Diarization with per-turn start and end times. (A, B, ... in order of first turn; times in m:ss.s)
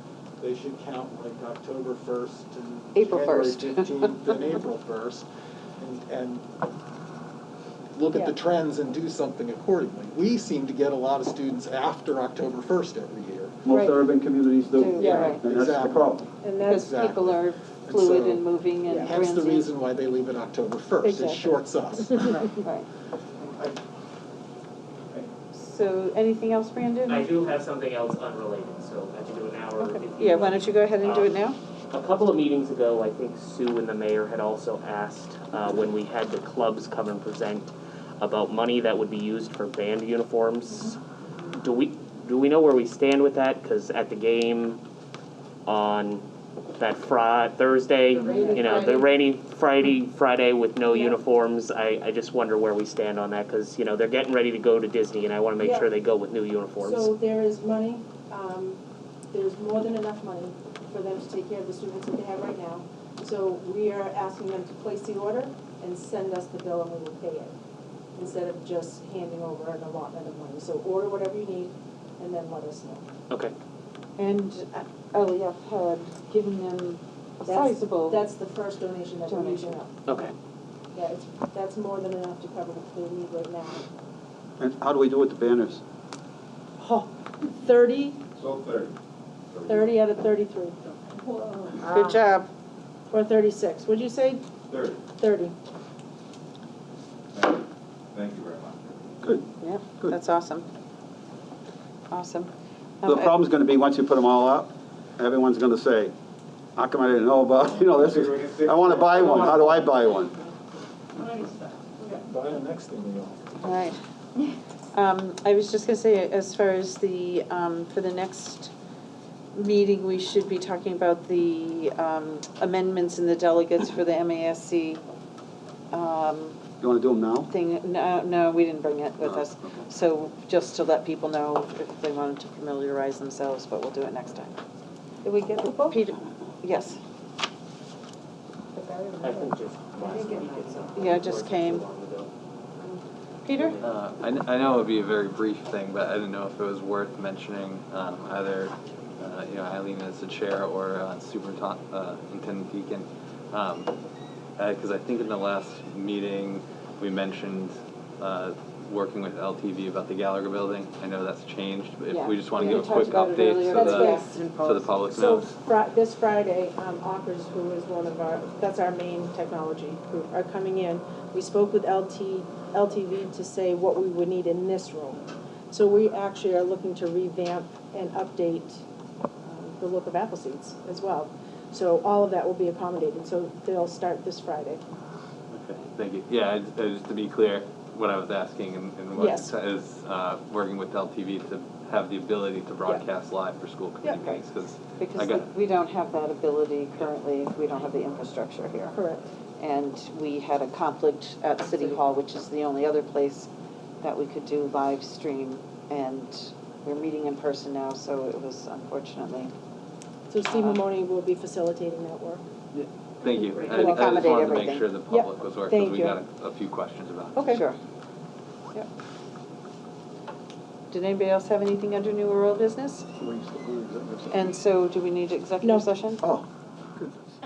0:00.4-0:05.3 A
0:03.0-0:03.9 B
0:05.8-0:06.5 A
0:08.0-0:13.7 A
0:13.6-0:16.2 C
0:13.7-0:14.0 B
0:14.7-0:15.4 B
0:15.0-0:22.4 A
0:15.0-0:15.4 D
0:16.4-0:16.9 D
0:16.7-0:19.7 B
0:18.9-0:19.2 D
0:21.0-0:21.5 D
0:22.1-0:22.5 D
0:22.4-0:22.9 B
0:25.5-0:27.3 B
0:27.1-0:31.3 E
0:30.2-0:31.6 B
0:31.9-0:41.0 E
0:41.5-0:44.8 E
0:45.7-0:57.1 E
0:48.2-0:49.0 B
0:48.2-0:48.8 D
0:55.6-0:55.9 D
0:56.8-0:58.8 D
0:59.3-1:07.6 D
1:08.2-1:13.1 D
1:14.2-1:18.3 B
1:17.4-1:19.9 D
1:19.3-1:19.8 B
1:20.1-1:20.4 E
1:20.9-1:23.8 D
1:24.6-1:25.8 C
1:26.8-1:28.2 D
1:28.4-1:28.9 F
1:29.7-1:30.8 D
1:31.6-1:32.2 D
1:31.8-1:32.5 B
1:33.1-1:34.4 D
1:35.2-1:35.6 D
1:38.2-1:39.0 F
1:39.6-1:40.7 B
1:42.1-1:43.4 B
1:43.0-1:46.1 C
1:46.8-1:50.4 C
1:48.0-1:49.9 F
1:52.0-1:53.6 A
1:53.6-1:54.0 B
1:54.9-1:58.7 B
1:59.5-2:05.0 B
2:05.9-2:06.6 B
2:06.8-2:07.5 C
2:07.5-2:14.6 B
2:15.3-2:16.0 D
2:15.6-2:17.0 B
2:19.2-2:22.3 E
2:20.1-2:21.8 B
2:23.4-2:23.8 B
2:23.5-2:24.0 E
2:23.8-2:33.9 G
2:34.6-2:45.5 G
2:42.1-2:44.9 B
2:43.7-2:44.3 D
2:45.1-2:58.8 D
2:59.4-3:04.8 D
3:05.5-3:15.5 G
3:09.2-3:09.5 D
3:14.0-3:14.4 D
3:15.0-3:19.0 B
3:18.9-3:19.3 D
3:19.6-3:23.5 B
3:24.0-3:29.5 B
3:30.3-3:32.4 D
3:30.5-3:30.8 B
3:32.8-3:37.5 G
3:33.5-3:34.9 B
3:33.6-3:34.2 D
3:35.1-3:36.2 D
3:37.3-3:37.6 D
3:37.5-3:37.8 B
3:40.9-3:43.1 B
3:43.2-3:44.5 C
3:44.3-3:46.2 B
3:45.6-3:45.9 D
3:46.2-3:47.2 C